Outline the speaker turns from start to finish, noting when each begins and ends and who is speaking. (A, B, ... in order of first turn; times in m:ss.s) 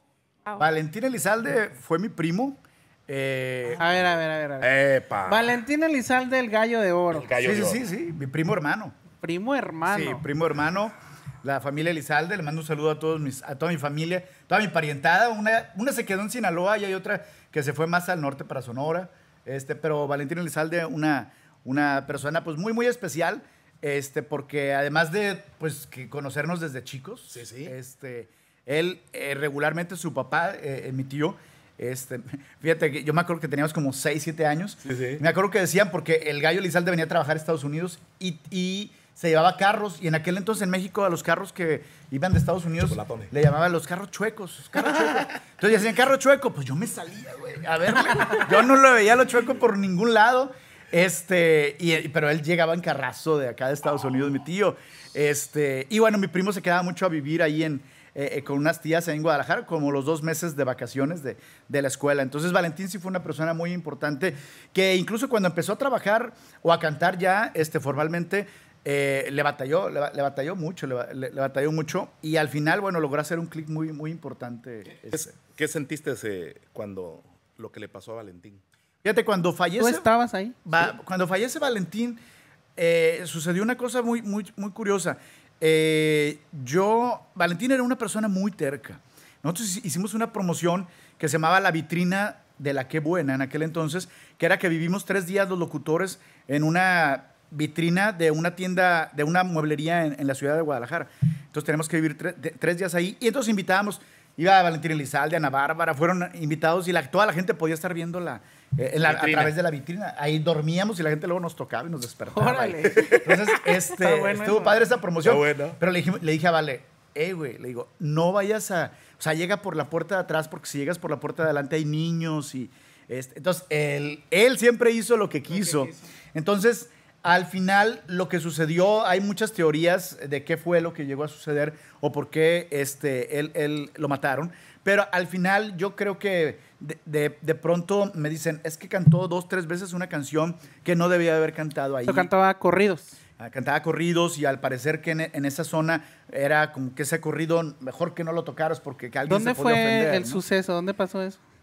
0:00.6-0:03.8 A
0:03.8-0:04.7 B
0:04.6-0:05.5 C
0:05.2-0:07.3 B
0:07.1-0:07.8 C
0:07.4-0:09.0 A
0:09.2-0:10.2 B
0:09.9-1:15.3 A
0:27.3-0:27.7 C
0:34.8-0:35.2 C
0:42.8-0:43.3 C
0:44.8-0:45.3 C
1:15.1-1:18.6 C
1:19.0-1:20.1 A
1:19.8-1:20.6 B
1:20.6-1:22.2 A
1:22.8-2:22.3 A
1:49.0-1:49.5 C
1:52.3-1:54.8 B
1:52.9-1:53.3 C
1:55.2-1:55.8 C
2:22.1-2:23.2 B
2:23.4-2:30.4 A
2:29.2-2:31.4 B